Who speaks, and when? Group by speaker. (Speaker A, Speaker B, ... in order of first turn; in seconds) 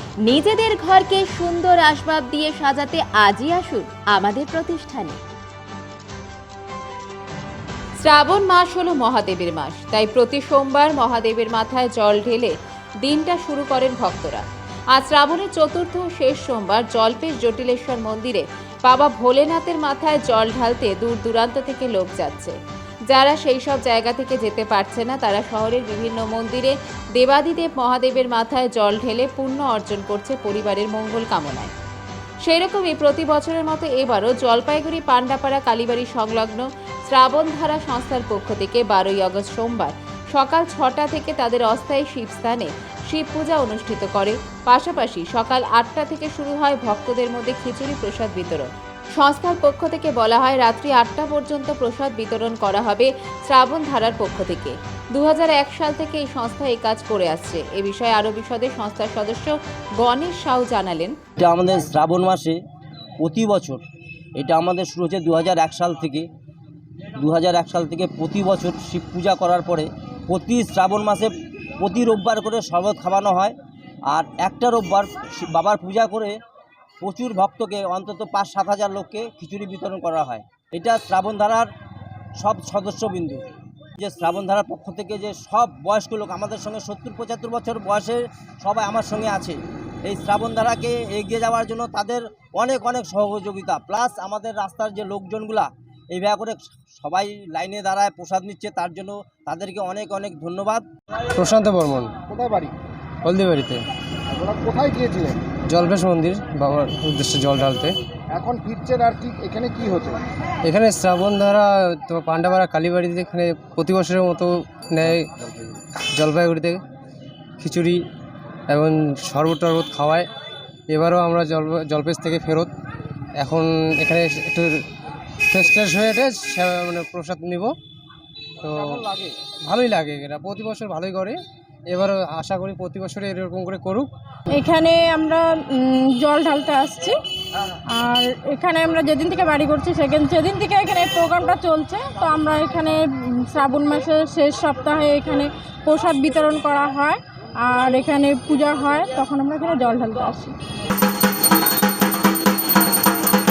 Speaker A: 0.2-5.2, 8.0-22.6, 23.1-31.7, 32.4-61.2
Speaker B: 61.4-62.6, 63.2-63.8, 64.3-66.3, 67.2-73.5, 74.1-76.4, 77.0-81.7, 82.4-83.4, 84.0-100.8
Speaker C: 101.3-102.1, 103.2-103.8, 105.7-107.9, 110.7-115.3, 116.2-116.8, 117.6-118.0, 118.7-120.3, 120.9-122.7, 123.4-124.8, 125.5-127.7, 128.6-129.0, 129.7-131.4, 131.9-134.1
Speaker D: 102.3-102.7, 104.3-105.4, 108.3-110.2, 128.7-129.3
Speaker E: 134.5-137.2, 137.9-150.6